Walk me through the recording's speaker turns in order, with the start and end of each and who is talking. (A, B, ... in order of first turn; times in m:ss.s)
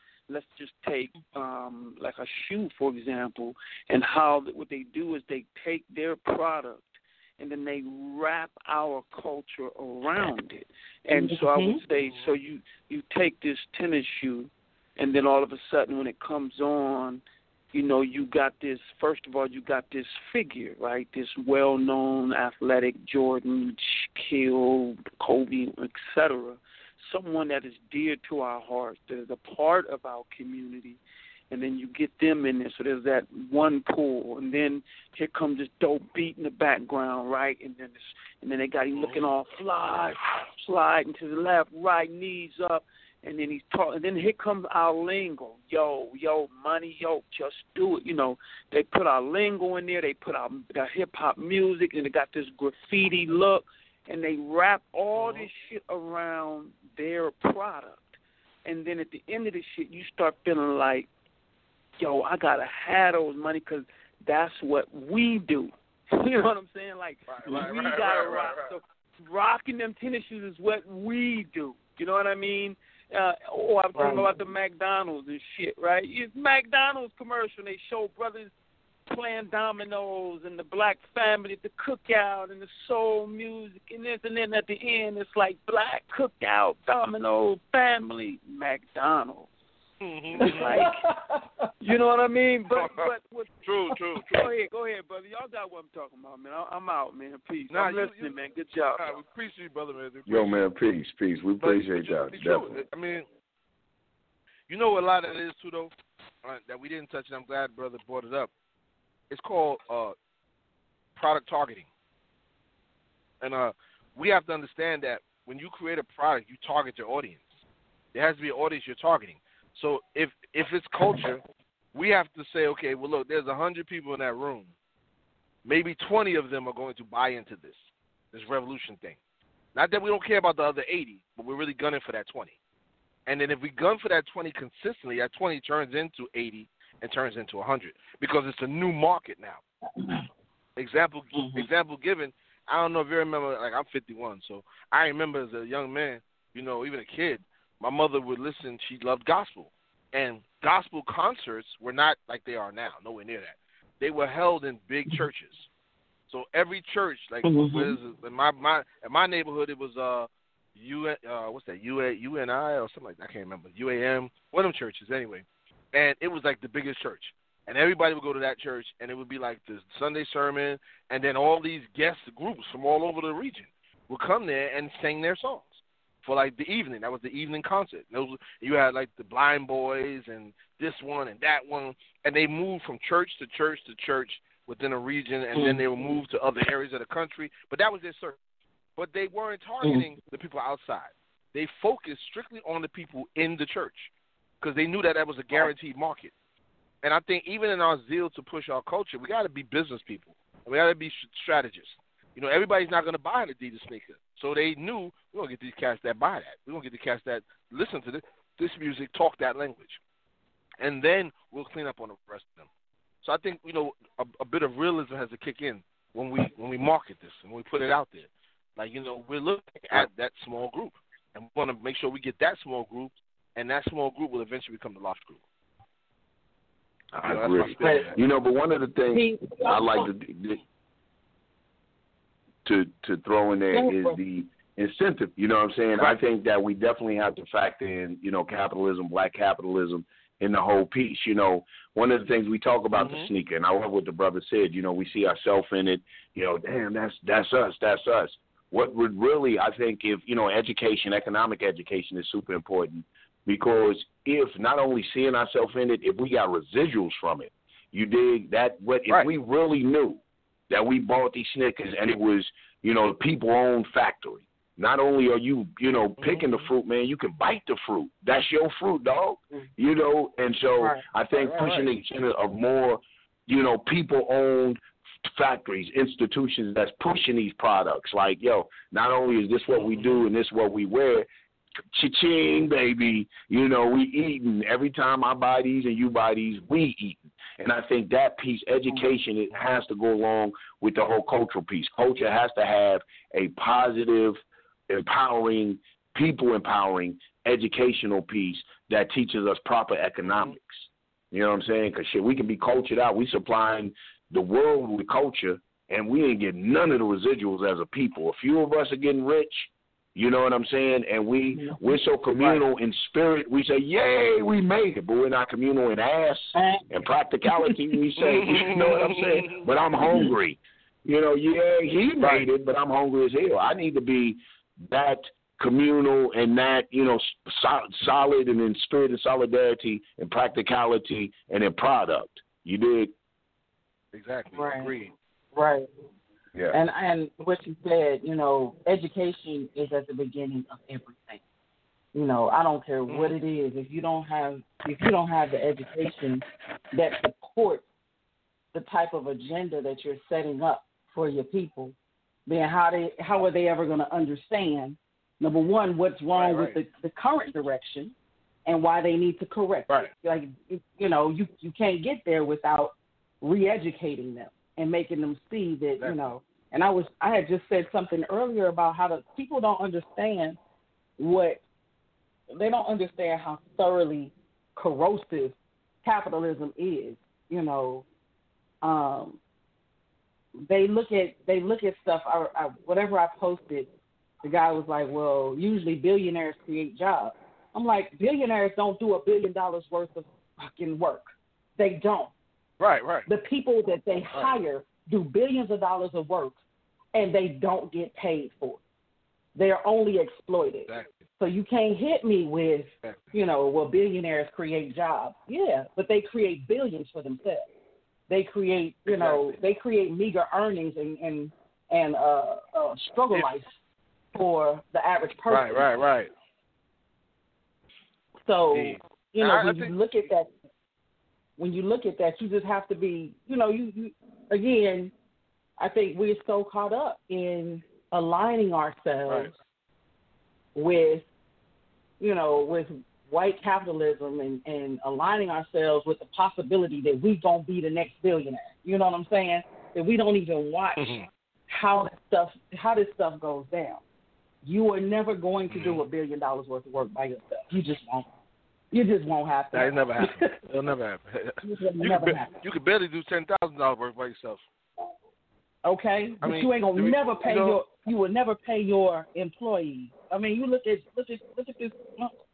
0:00.3-0:31.0 A
0:11.1-0:11.8 B
0:31.5-1:01.1 A
0:38.9-0:39.3 C
0:55.1-0:55.5 C
1:02.0-1:18.5 A
1:07.3-1:08.7 C
1:13.9-1:14.3 B
1:19.1-1:29.5 A
1:30.0-1:30.9 C
1:30.3-1:31.1 A
1:30.4-1:31.7 B
1:31.8-1:39.2 A
1:32.7-1:33.1 C
1:33.6-1:34.2 C
1:37.7-1:38.4 C
1:38.9-1:40.6 C
1:40.3-1:42.7 D
1:41.6-1:43.3 C
1:44.7-1:45.9 C
1:46.4-1:48.5 C
1:49.3-1:50.1 C
1:51.2-1:51.9 C
1:53.4-1:57.6 C
1:58.1-2:01.4 C
2:01.9-2:04.7 C
2:05.6-2:07.8 C
2:08.3-2:09.2 C
2:09.7-2:12.5 C
2:13.3-2:19.6 C
2:20.0-2:20.2 B
2:20.8-2:35.7 C
2:21.3-2:21.6 B
2:36.3-3:08.4 C
2:37.4-2:38.0 B
3:05.5-3:06.2 B
3:09.0-3:16.3 C
3:09.8-3:10.1 B
3:17.0-3:30.0 C
3:30.8-3:32.7 C
3:33.2-3:45.4 C
3:47.1-3:50.6 D
3:47.2-3:48.2 C
3:47.8-3:48.1 B
3:49.1-3:50.1 B
3:52.6-4:41.3 D
3:53.7-3:54.2 B
4:03.0-4:03.3 C
4:26.2-4:26.7 C
4:31.3-4:31.9 C
4:41.9-5:33.1 D
5:11.5-5:12.0 B
5:16.5-5:16.8 B
5:17.5-5:17.8 B
5:18.2-5:19.6 C
5:22.2-5:22.4 C
5:34.1-5:35.1 C
5:34.5-5:34.9 B
5:35.5-5:35.9 B
5:36.7-5:41.4 B
5:42.1-5:47.8 B
5:43.1-5:43.4 C
5:48.7-5:51.9 B
5:52.5-5:58.1 B
5:56.3-5:56.8 C
5:58.6-6:10.6 B
6:06.0-6:06.4 C
6:11.2-6:11.6 B
6:12.5-6:18.0 B
6:18.8-6:19.4 B
6:20.6-6:23.9 B
6:24.4-6:32.3 B
6:32.8-6:33.3 C
6:33.3-6:36.6 B
6:37.1-6:38.8 B
6:39.5-6:47.6 B
6:48.3-6:53.7 B
6:49.1-6:49.6 C
6:54.3-6:55.9 B
6:55.5-6:56.3 C
6:58.4-7:00.5 B
6:58.7-7:00.0 C
7:01.6-7:05.1 B
7:05.8-7:09.5 B
7:09.3-7:09.5 C
7:10.7-7:11.2 B
7:12.2-7:24.0 B
7:21.0-7:21.2 C
7:24.6-7:28.3 B
7:25.7-7:26.0 C
7:28.9-7:30.6 B
7:29.7-7:34.6 C
7:31.6-7:32.5 B
7:35.8-7:42.3 B
7:36.4-7:37.8 C